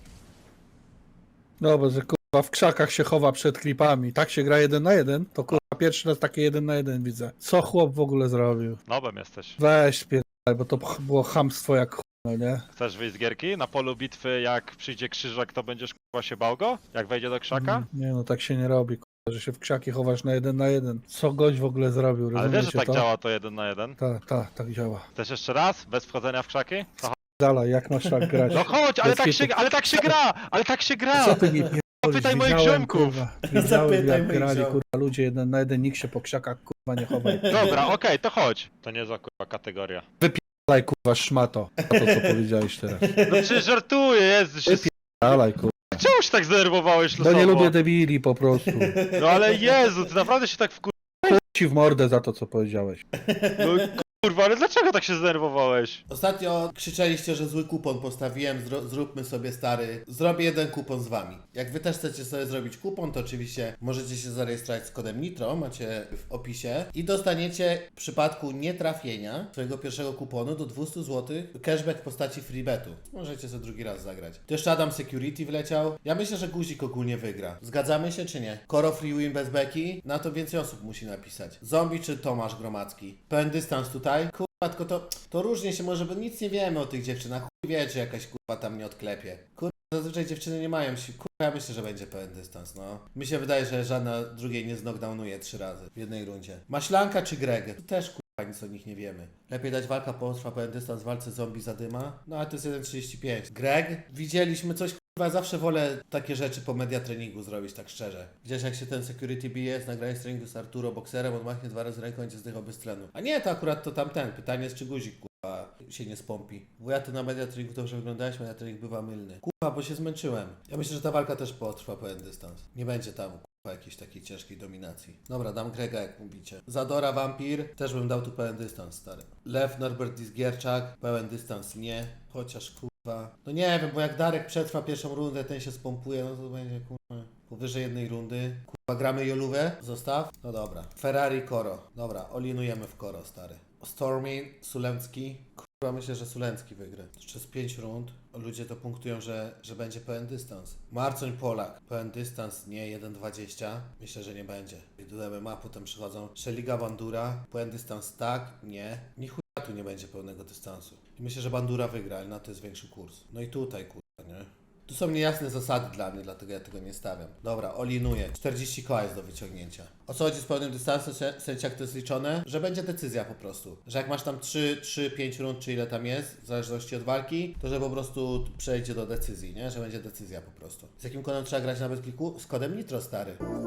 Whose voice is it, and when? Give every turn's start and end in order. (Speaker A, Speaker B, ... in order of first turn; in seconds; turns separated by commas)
Speaker A: 1.6-8.8, Speaker B: 8.9-9.6, Speaker A: 9.6-12.7, Speaker B: 12.7-17.9, Speaker A: 17.5-23.1, Speaker B: 22.3-24.0, Speaker A: 24.0-25.1, Speaker B: 25.1-27.2, Speaker A: 27.4-30.1, Speaker B: 28.5-31.4, Speaker A: 31.1-37.7, Speaker B: 32.0-33.2, Speaker C: 33.5-34.8, Speaker C: 37.3-37.8, Speaker B: 37.5-40.0, Speaker A: 40.2-43.1, Speaker C: 41.8-42.4, Speaker C: 43.0-43.6, Speaker B: 43.2-45.4, Speaker A: 44.7-46.0, Speaker B: 46.0-47.8, Speaker A: 47.2-49.0, Speaker C: 48.6-49.4, Speaker B: 49.1-51.4, Speaker A: 51.3-53.0, Speaker C: 53.2-53.9, Speaker B: 53.6-56.0, Speaker C: 56.1-183.4